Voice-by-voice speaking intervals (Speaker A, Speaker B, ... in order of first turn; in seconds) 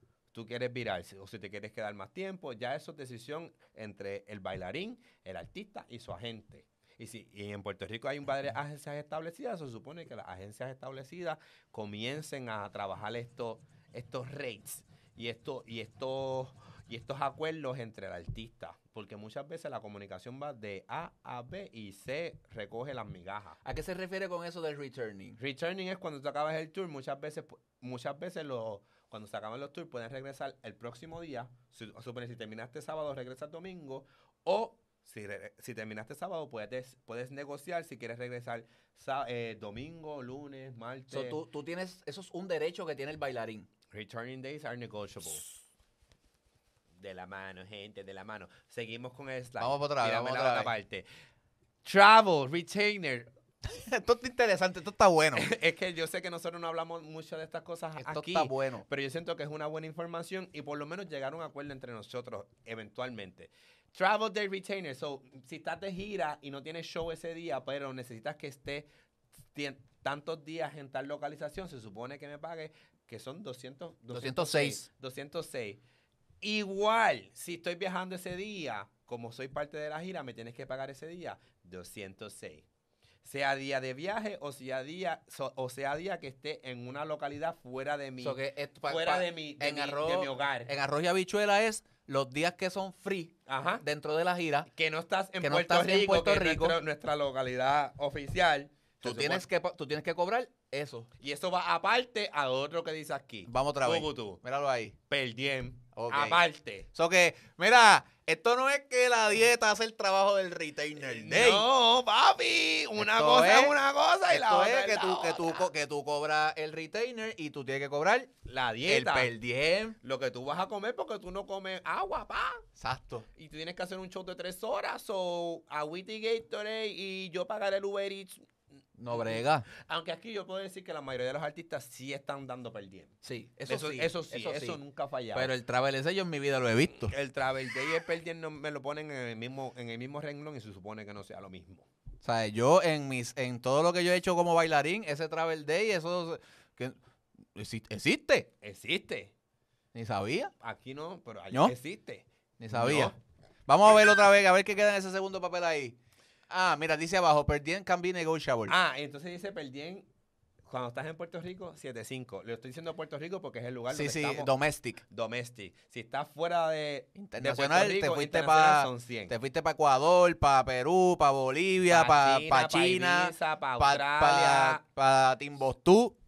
Speaker A: 0.3-23.6, 25.4-41.4, 43.9-45.5, 47.0-51.1, 51.8-53.3, 55.4-68.9, 69.5-75.8, 76.4-82.7, 83.2-90.7, 93.5-93.8, 94.7-99.5, 101.2-104.4, 105.1-106.9, 111.0-115.7, 118.5-119.3, 120.0-122.7, 123.4-128.5, 129.1-133.2, 133.7-135.5, 137.0-141.9, 148.6-149.3, 150.6-153.2, 158.7-160.1, 160.7-164.5, 165.1-169.3, 171.9-174.8
Speaker B: 23.6-25.4, 41.1-43.7, 49.6-50.7, 53.6-55.5, 58.0-58.9, 74.1-74.8, 88.2-94.7, 95.4-96.8, 99.0-101.1, 103.5-105.0, 106.0-106.4, 106.9-111.7, 113.0-113.8, 114.3-118.3, 118.9-120.0, 122.8-123.3, 129.0-129.7, 133.2-134.8, 135.3-137.1, 142.2-147.0, 147.6-148.5, 149.9-150.5, 152.6-153.1, 153.7-156.0, 156.5-158.8, 163.9-165.0, 167.2-176.2